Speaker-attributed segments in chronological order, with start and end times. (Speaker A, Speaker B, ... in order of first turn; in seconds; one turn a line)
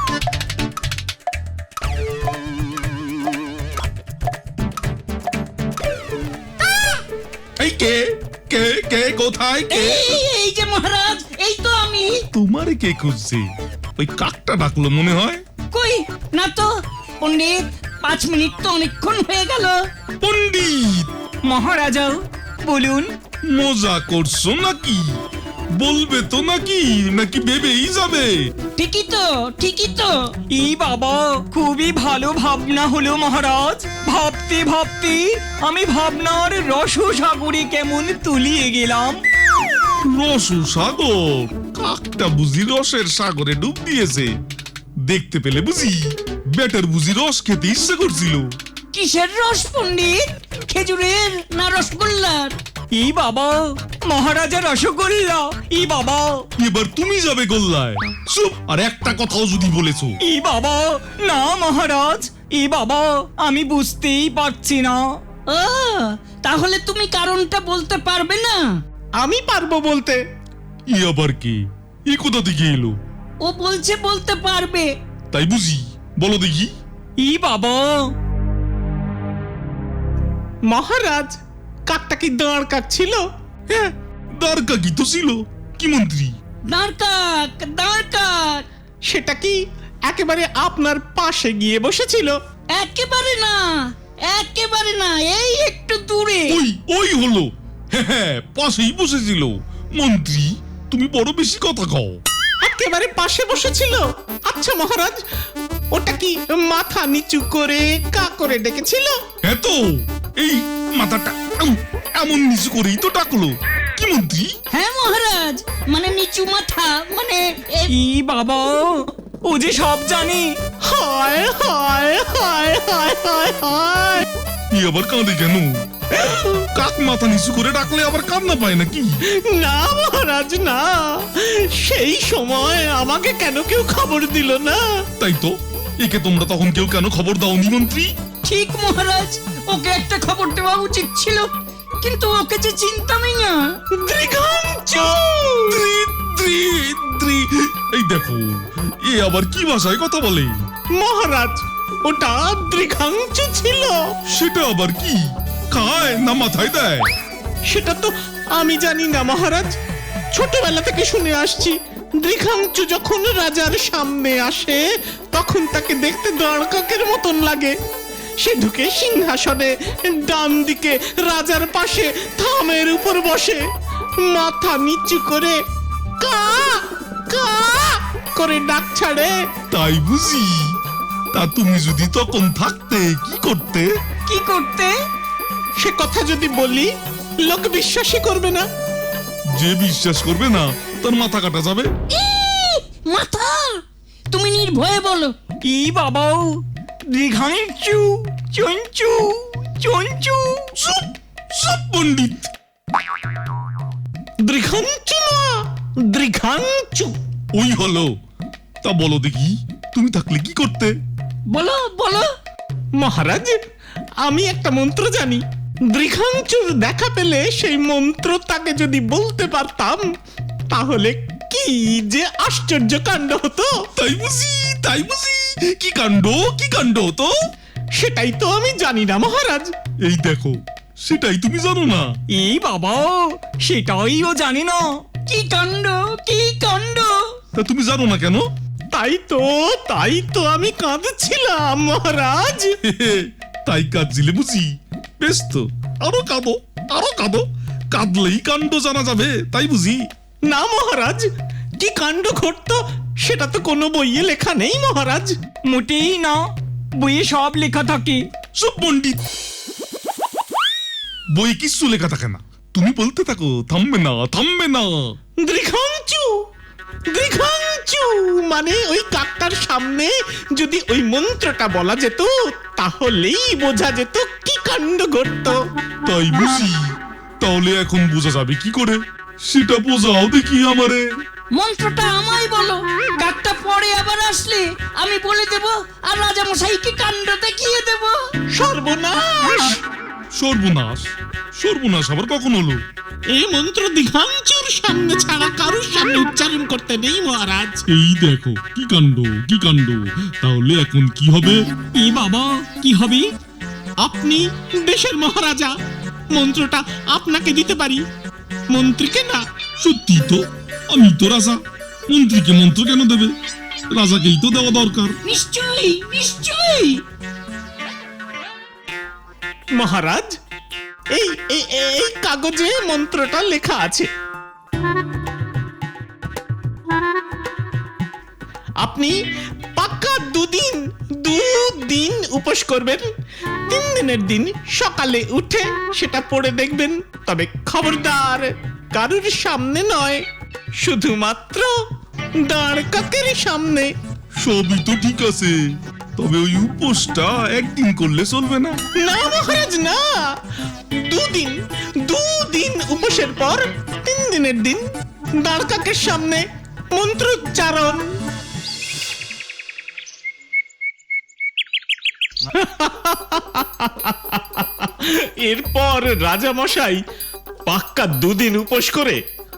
Speaker A: 7.6-10.1
Speaker B: 9.7-12.2
Speaker A: 12.3-13.5
Speaker A: 14.0-15.4
Speaker B: 15.7-16.7
Speaker B: 17.2-19.8
Speaker A: 20.2-21.1
Speaker C: 21.4-23.1
Speaker A: 23.5-25.2
Speaker A: 25.8-28.3
Speaker B: 28.8-30.3
Speaker C: 30.5-39.2
Speaker A: 40.0-44.3
Speaker A: 45.0-48.5
Speaker B: 48.9-52.5
Speaker C: 53.0-56.4
Speaker A: 56.6-60.2
Speaker C: 60.2-65.0
Speaker B: 65.5-68.7
Speaker D: 69.2-70.2
Speaker A: 70.9-73.0
Speaker B: 73.4-74.9
Speaker A: 75.3-76.7
Speaker C: 77.2-78.0
Speaker D: 80.7-81.4
Speaker D: 81.9-83.9
Speaker A: 84.3-86.3
Speaker B: 86.7-88.7
Speaker D: 89.0-92.4
Speaker B: 92.7-96.6
Speaker A: 96.5-102.2
Speaker D: 102.6-105.2
Speaker D: 105.9-109.2
Speaker A: 109.4-114.5
Speaker B: 114.7-117.9
Speaker C: 118.0-120.5
Speaker D: 120.8-124.3
Speaker A: 124.7-125.8
Speaker A: 126.6-129.2
Speaker D: 129.5-134.8
Speaker A: 135.2-138.1
Speaker B: 138.4-141.5
Speaker B: 142.0-143.6
Speaker D: 143.9-145.8
Speaker A: 145.7-150.6
Speaker D: 150.9-154.0
Speaker A: 154.3-157.1
Speaker D: 157.7-159.8
Speaker D: 160.3-164.8
Speaker D: 165.3-167.8
Speaker D: 168.4-173.6
Speaker D: 174.2-175.6
Speaker D: 176.2-179.3
Speaker A: 179.7-180.8
Speaker A: 181.3-183.9
Speaker B: 184.3-184.9
Speaker D: 185.8-188.7
Speaker A: 189.5-191.9
Speaker B: 192.1-195.3
Speaker C: 195.7-196.5
Speaker C: 197.1-200.7
Speaker A: 200.8-202.5
Speaker D: 204.4-207.2
Speaker A: 207.5-208.1
Speaker A: 208.8-210.9
Speaker B: 211.5-212.3
Speaker D: 213.0-213.6
Speaker D: 214.2-220.0
Speaker D: 220.7-223.7
Speaker A: 224.0-227.3
Speaker D: 227.9-229.7
Speaker A: 230.1-232.1
Speaker C: 232.3-234.8
Speaker B: 235.3-237.2
Speaker A: 237.6-238.5
Speaker D: 238.9-242.7
Speaker A: 242.8-250.0
Speaker D: 250.5-251.3
Speaker D: 251.8-255.3
Speaker C: 255.7-256.4
Speaker C: 257.0-258.2
Speaker A: 258.6-259.2
Speaker A: 261.4-265.0
Speaker D: 265.4-266.3
Speaker D: 267.1-275.6
Speaker A: 276.0-281.1
Speaker B: 281.5-288.2
Speaker D: 288.5-289.8
Speaker A: 290.3-292.8
Speaker D: 293.3-297.8
Speaker A: 297.9-301.6
Speaker C: 301.9-303.3
Speaker D: 304.0-305.7
Speaker D: 306.3-308.0
Speaker D: 308.7-309.4
Speaker A: 309.8-313.3
Speaker A: 313.9-315.2
Speaker B: 315.2-317.0
Speaker D: 319.8-320.4
Speaker D: 321.1-324.1
Speaker D: 328.8-329.1
Speaker D: 329.8-333.1
Speaker D: 333.7-340.2
Speaker D: 340.8-341.7
Speaker D: 342.4-343.9
Speaker A: 344.4-345.6
Speaker A: 346.2-348.8
Speaker D: 349.0-350.0
Speaker D: 350.9-354.8
Speaker D: 355.4-358.1
Speaker D: 362.5-367.0
Speaker D: 367.7-369.2